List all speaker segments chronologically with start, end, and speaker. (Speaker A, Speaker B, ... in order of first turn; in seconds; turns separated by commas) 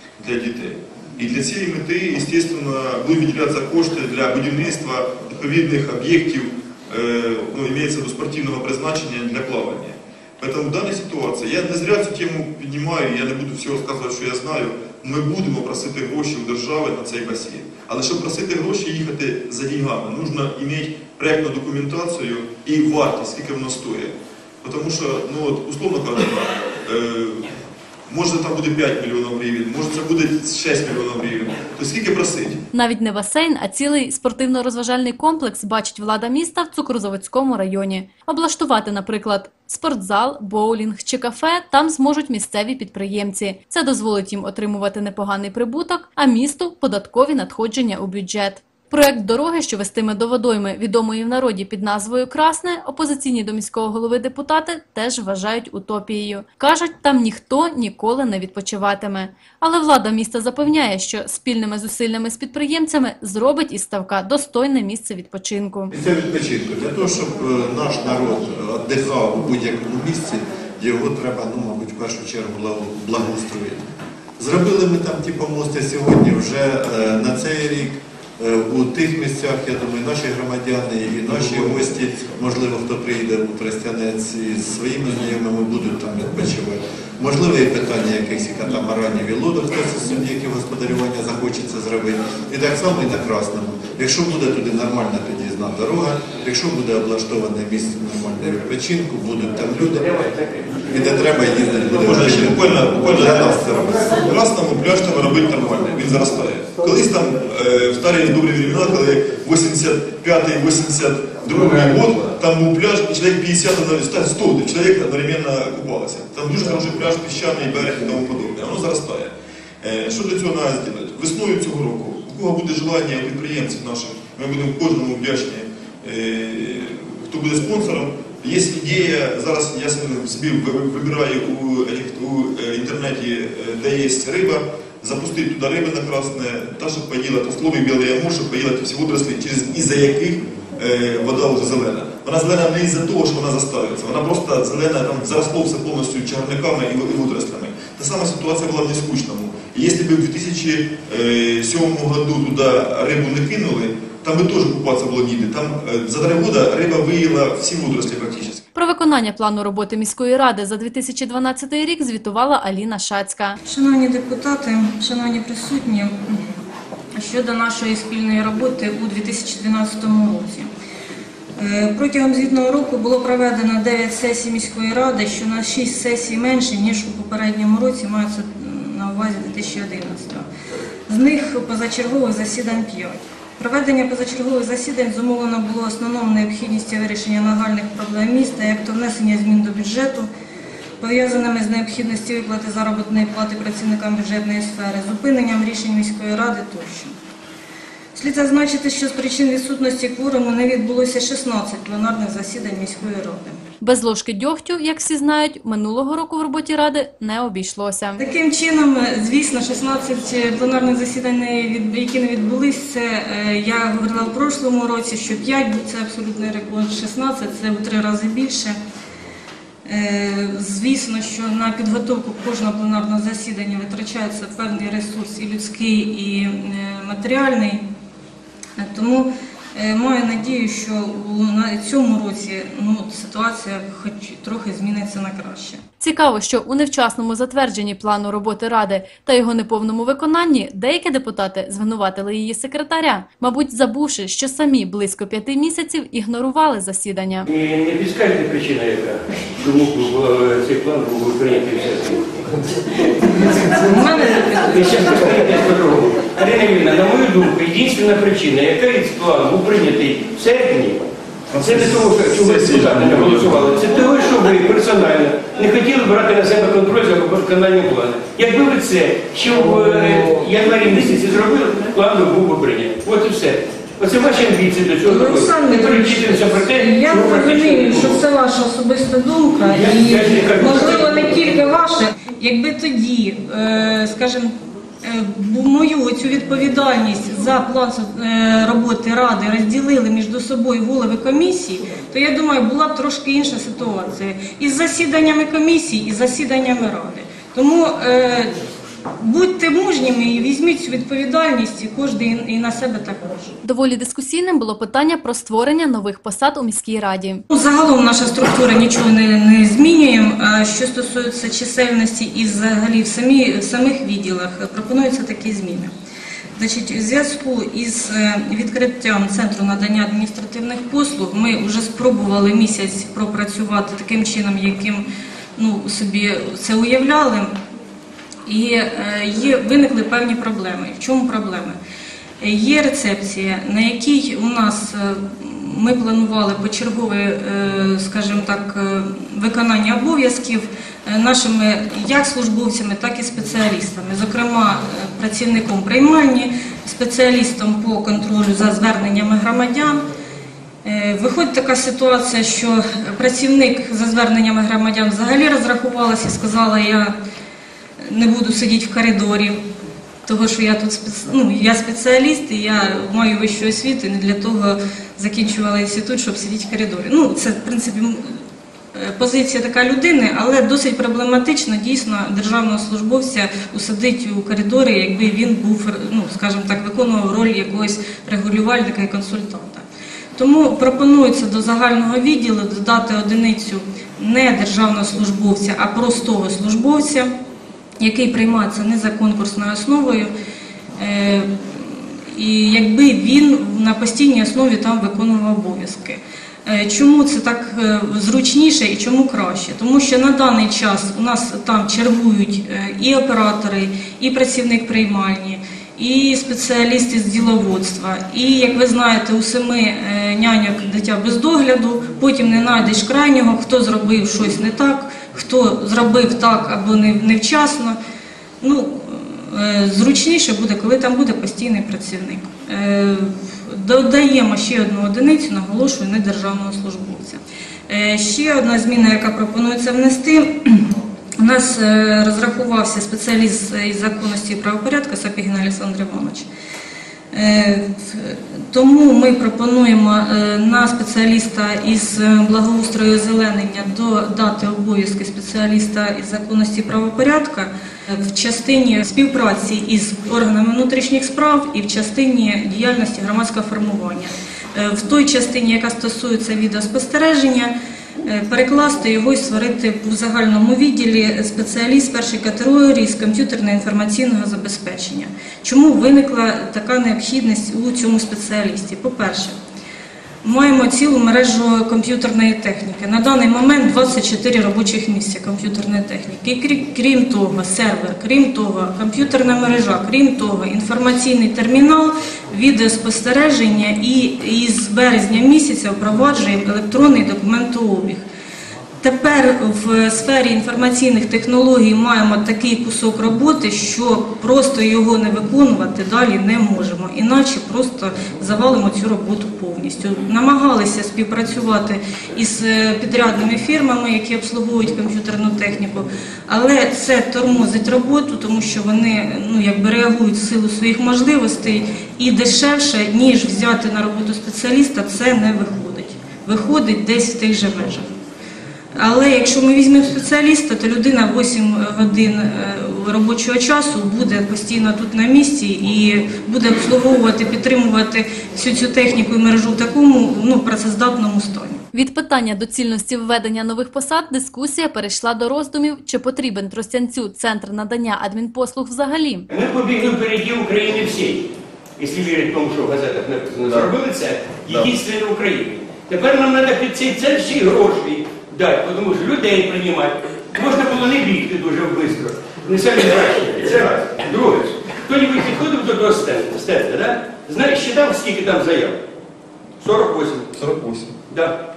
Speaker A: 0.2-27.5, Speaker A: 28.1-32.6, Speaker B: 32.7-65.9, Speaker C: 65.9-100.2, Speaker C: 100.8-104.1, Speaker A: 101.9-158.6, Speaker B: 158.8-163.6, Speaker D: 163.6-166.5, Speaker D: 167.1-170.7, Speaker D: 171.6-180.5, Speaker D: 181.1-190.3, Speaker D: 191.0-197.2, Speaker D: 198.1-203.6, Speaker B: 203.8-208.2, Speaker D: 208.2-218.8, Speaker D: 219.8-227.8, Speaker D: 228.8-235.8, Speaker B: 236.0-247.5, Speaker E: 247.5-252.5, Speaker D: 253.4-255.7, Speaker E: 254.5-261.0, Speaker A: 261.5-263.8, Speaker E: 261.6-278.2, Speaker D: 275.0-298.5, Speaker E: 279.6-281.4, Speaker D: 299.2-303.3, Speaker B: 303.6-307.4, Speaker D: 307.5-315.9, Speaker D: 316.6-327.5, Speaker D: 328.4-331.8, Speaker D: 332.4-350.0, Speaker D: 350.8-357.1, Speaker D: 358.0-359.6, Speaker D: 360.2-379.8, Speaker D: 380.4-387.3, Speaker D: 388.0-390.3, Speaker D: 391.0-418.0, Speaker D: 418.6-436.5, Speaker D: 437.3-469.6, Speaker D: 470.4-488.2, Speaker D: 489.0-518.1, Speaker D: 518.9-531.8, Speaker B: 531.9-539.5, Speaker E: 539.5-559.0, Speaker A: 543.6-543.9, Speaker A: 544.6-544.9, Speaker A: 553.6-554.1, Speaker E: 559.8-560.6, Speaker A: 560.5-561.1, Speaker E: 561.3-561.5